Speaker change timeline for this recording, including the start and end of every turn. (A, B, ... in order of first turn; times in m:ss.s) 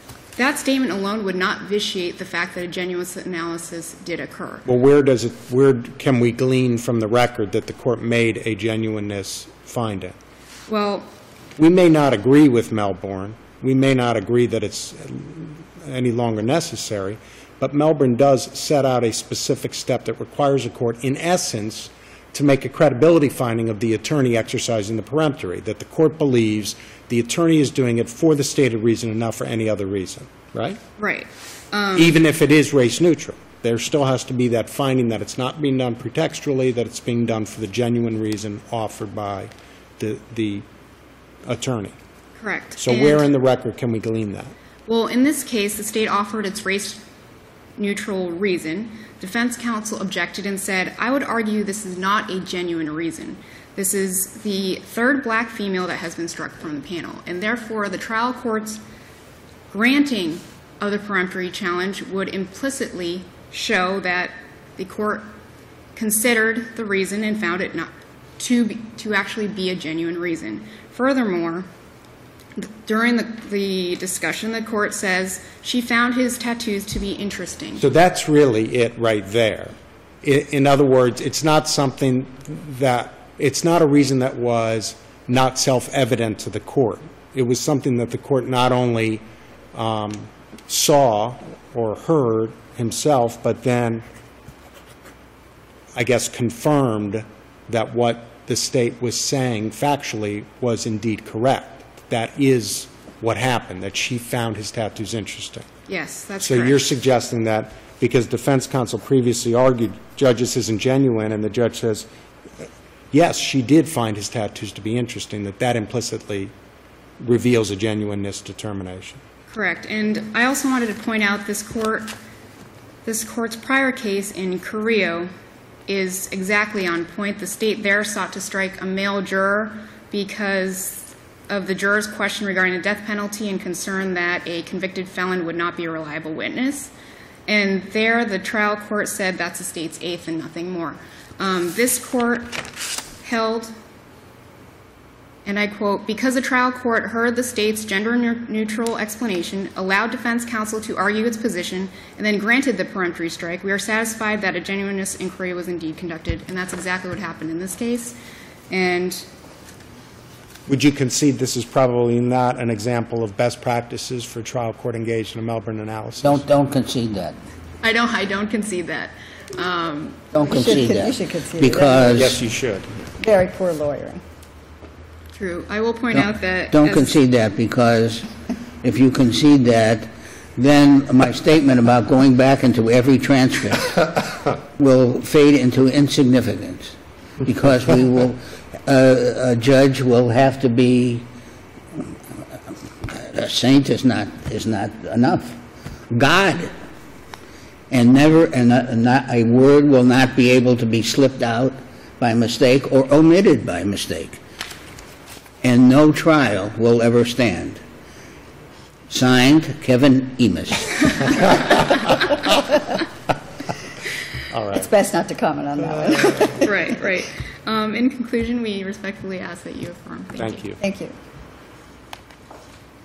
0:00.4-0:04.6 A
0:04.6-0:10.2 B
0:10.7-0:11.1 A
0:11.6-0:30.8 B
0:31.0-0:32.1 A
0:32.0-0:40.6 B
0:41.5-0:42.0 B
0:42.4-0:43.2 A
0:42.8-0:44.5 B
0:44.9-0:47.0 A
0:47.8-0:58.8 A
0:59.7-1:05.3 A
1:06.0-1:11.7 A
1:12.6-1:17.8 A
1:17.8-1:34.0 B
1:36.0-1:45.7 B
1:45.9-1:46.8 A
1:46.4-1:52.1 B
1:53.1-1:56.5 B
1:57.2-1:59.2 B
1:59.5-2:02.1 A
2:03.0-2:05.3 A
2:05.9-2:16.9 A
2:17.5-2:22.6 A
2:23.2-2:23.7 A
2:25.5-2:38.2 A
2:38.7-2:39.3 A
2:40.7-2:46.4 B
2:46.2-2:47.4 C
2:47.8-2:50.2 A
2:50.3-2:52.4 C
2:50.4-2:52.2 D
2:52.1-2:53.0 B
2:53.2-2:54.2 D
2:55.4-2:57.1 A
2:56.7-2:58.3 C
2:58.8-3:03.9 C
3:04.8-3:11.2 C
3:13.0-3:15.6 C
3:16.1-3:16.7 C
3:17.9-3:24.4 C
3:25.6-3:27.8 C
3:29.1-3:31.1 C
3:34.5-3:34.9 B
3:34.8-3:36.7 D
3:36.0-3:36.6 B
3:36.6-3:40.6 A
3:40.4-3:40.8 B
3:40.8-3:41.1 D